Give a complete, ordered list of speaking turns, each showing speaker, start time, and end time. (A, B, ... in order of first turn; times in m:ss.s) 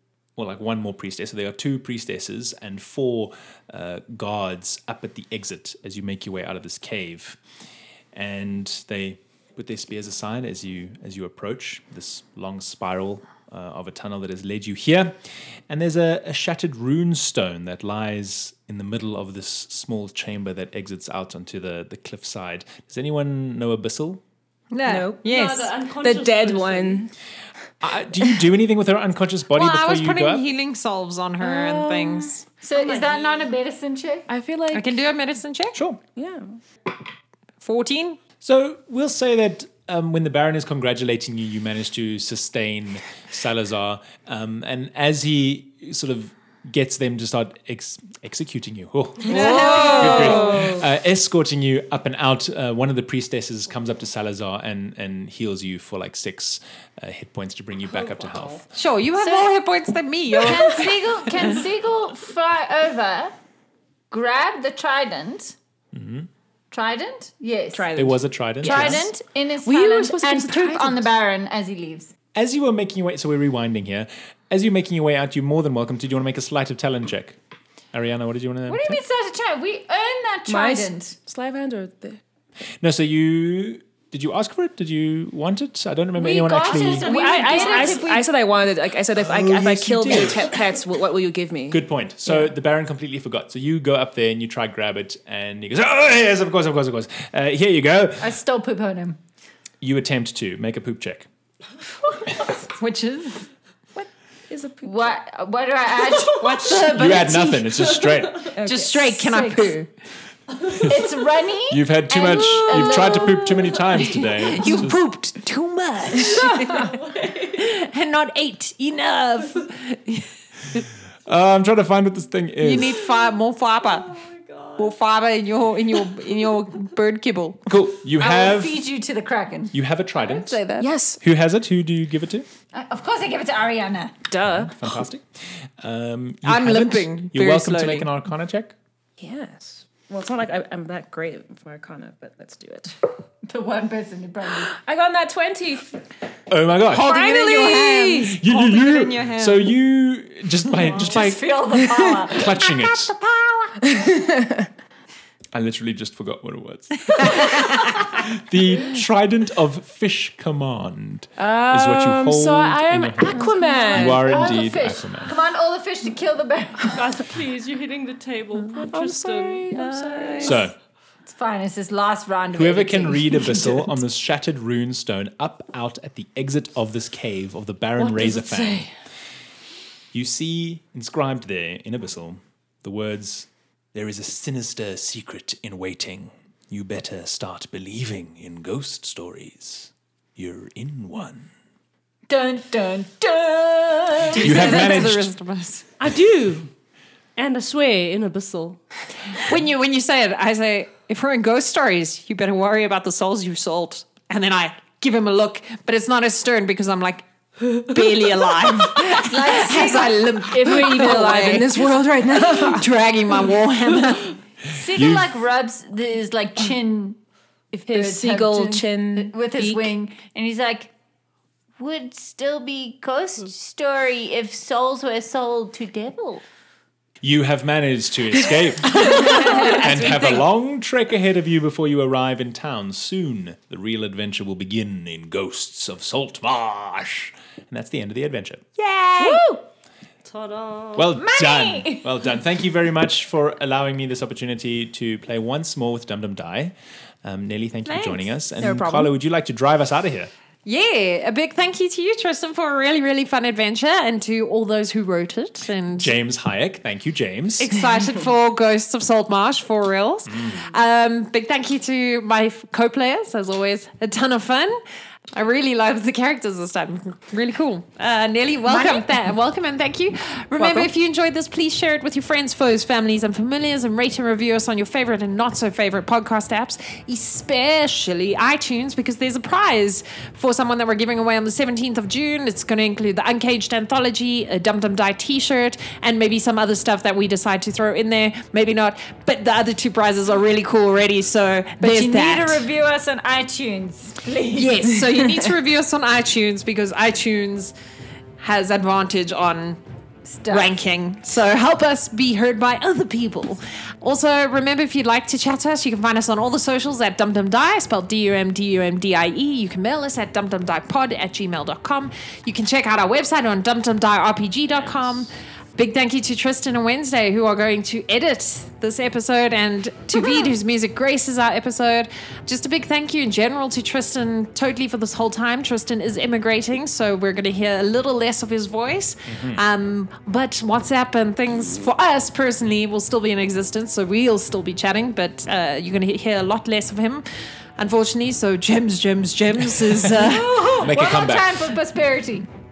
0:00.4-0:07.4 A
0:08.1-0:15.2 A
0:15.7-0:24.2 A
0:24.7-0:25.7 B
0:24.9-0:25.3 C
0:25.2-0:27.1 D
0:26.0-0:27.1 C
0:27.8-0:30.4 A
0:29.5-0:32.4 B
0:31.4-0:32.4 C
0:32.6-0:34.3 E
0:32.8-0:33.4 D
0:34.3-0:35.0 C
0:34.7-0:35.8 B
0:35.7-0:36.0 A
0:36.2-0:36.6 C
0:37.6-0:38.2 B
0:38.4-0:58.7 A
0:49.2-0:50.6 B
0:49.3-0:50.8 E
0:49.4-0:50.7 C
0:57.9-0:58.6 D
0:58.8-1:01.5 B
0:59.2-0:59.5 E
1:00.4-1:03.3 E
1:04.1-1:05.6 E
1:05.9-1:06.3 A
1:06.7-1:07.9 E
1:07.7-1:09.1 C
1:07.9-1:09.1 A
1:08.6-1:12.1 E
1:09.6-1:11.1 C
1:12.4-1:17.4 A
1:17.9-1:19.0 A
1:18.7-1:21.2 E
1:20.5-1:22.2 C
1:22.8-1:27.5 A
1:26.2-1:28.3 E
1:26.9-1:31.9 C
1:29.2-1:30.6 A
1:31.7-1:38.4 A
1:38.2-1:39.2 E
1:39.8-1:41.3 A
1:42.8-1:43.3 E
1:42.8-1:43.3 B
1:44.0-1:45.2 C
1:44.8-1:47.9 E
1:46.1-1:46.9 D
1:46.7-1:48.6 A
1:47.7-1:48.6 D
1:48.5-1:49.1 C
1:48.6-1:49.9 B
1:48.9-1:49.8 E
1:50.6-1:51.0 A
1:50.8-1:54.3 E
1:51.7-1:55.0 A
1:54.4-1:57.0 B
1:56.4-1:57.7 D
1:57.6-2:00.8 B
2:00.8-2:03.1 A
2:02.6-2:04.1 B
2:03.8-2:05.0 D
2:04.8-2:07.6 B
2:07.7-2:08.9 A
2:08.2-2:09.8 E
2:09.7-2:10.7 A
2:10.2-2:10.9 B
2:10.8-2:11.2 C
2:11.2-2:12.5 A
2:12.7-2:14.2 E
2:14.3-2:14.6 C
2:14.3-2:15.3 A
2:15.8-2:18.8 A
2:16.4-2:18.1 B
2:19.2-2:23.0 C
2:23.5-2:24.8 E
2:24.7-2:26.0 C
2:26.5-2:27.3 A
2:26.9-2:29.7 B
2:27.1-2:27.8 E
2:28.1-2:31.6 A
2:30.7-2:33.8 E
2:32.2-2:33.2 A
2:33.8-2:34.7 C
2:35.5-2:45.4 A
2:41.4-2:44.5 C
2:43.6-2:47.1 E
2:46.9-2:49.9 D
2:48.8-2:50.6 C
2:49.7-2:50.6 B
2:50.4-2:50.7 A
2:51.3-2:53.9 E
2:52.5-2:58.9 A
2:58.0-2:58.9 B
3:00.1-3:11.5 A
3:12.3-3:15.0 E
3:14.3-3:15.9 B
3:14.4-3:15.3 A
3:16.0-3:16.7 D
3:17.4-3:18.8 D
3:19.5-3:34.4 B
3:29.1-3:30.2 E
3:30.6-3:32.9 C
3:34.7-3:37.2 E
3:34.9-3:35.3 A
3:37.7-3:40.9 E
3:37.9-3:39.9 C
3:41.8-3:46.4 E
3:47.2-3:58.7 A
3:49.0-3:50.1 B
3:49.0-3:50.4 C
3:58.8-3:59.4 B
3:59.2-3:59.6 E
4:00.2-4:01.1 D
4:01.0-4:10.3 A
4:01.2-4:02.1 E
4:07.9-4:08.3 B
4:08.6-4:09.1 C
4:10.6-4:16.1 B
4:16.0-4:17.8 A
4:17.6-4:24.8 B
4:20.3-4:20.6 A
4:25.3-4:52.6 B
4:28.7-4:29.0 E
4:30.6-4:30.9 C
4:51.8-4:54.9 E
4:54.5-4:57.7 B
4:58.4-4:59.8 B
5:00.3-5:00.8 E
5:00.5-5:37.2 B
5:29.3-5:29.6 A
5:37.8-5:40.6 B
5:40.2-5:42.5 E
5:40.8-5:41.7 A